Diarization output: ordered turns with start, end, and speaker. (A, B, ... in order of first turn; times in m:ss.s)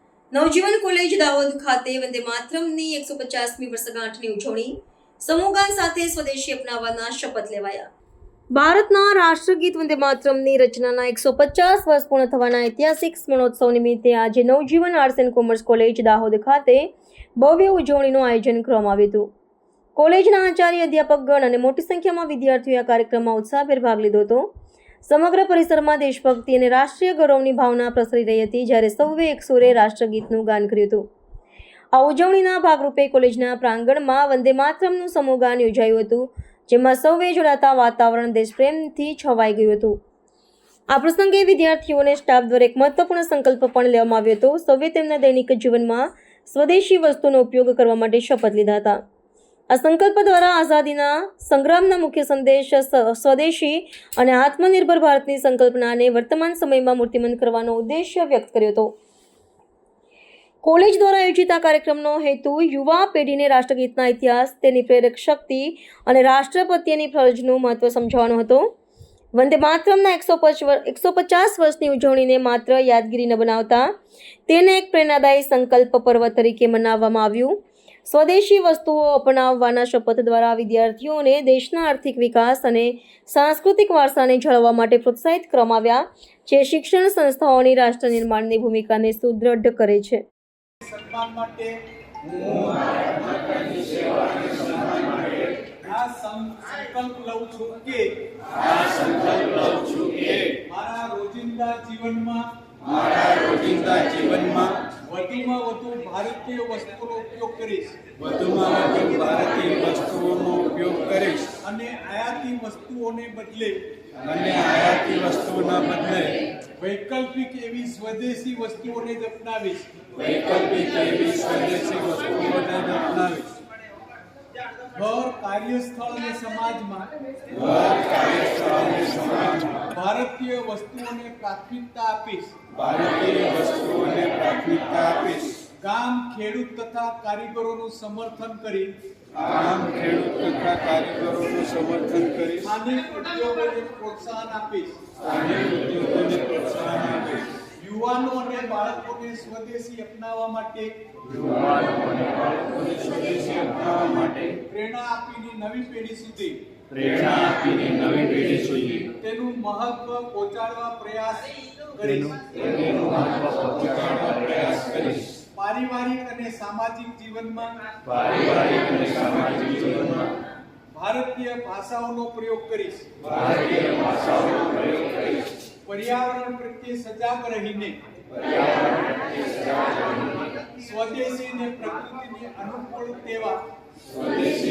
0:00.3-0:07.9 A
0:08.5-0:19.3 A
0:20.0-0:24.5 A
0:25.0-0:31.0 A
0:31.9-0:40.0 A
0:40.9-0:49.0 A
0:49.7-0:58.9 A
1:00.6-1:08.7 A
1:09.3-1:13.9 A
1:14.5-1:30.2 A
1:30.8-1:33.0 B
1:34.6-1:38.1 B
1:40.5-1:42.9 B
1:43.3-1:44.8 C
1:45.0-1:48.1 B
1:48.2-1:51.5 C
1:51.5-1:53.8 B
1:54.2-1:56.4 C
1:56.8-1:59.9 B
2:00.3-2:03.3 C
2:02.4-2:03.5 B
2:04.9-2:08.3 B
2:08.4-2:09.2 C
2:09.2-2:12.8 B
2:12.8-2:15.5 C
2:15.8-2:18.9 B
2:19.4-2:22.6 C
2:22.6-2:25.3 B
2:25.6-2:27.4 C
2:27.6-2:30.9 B
2:33.0-2:34.3 C
2:34.6-2:36.6 B
2:37.3-2:37.6 B
2:37.8-2:38.8 C
2:38.9-2:43.2 B
2:45.5-2:50.0 B
2:50.9-2:53.5 B
2:55.8-2:58.0 B
3:00.8-3:03.6 B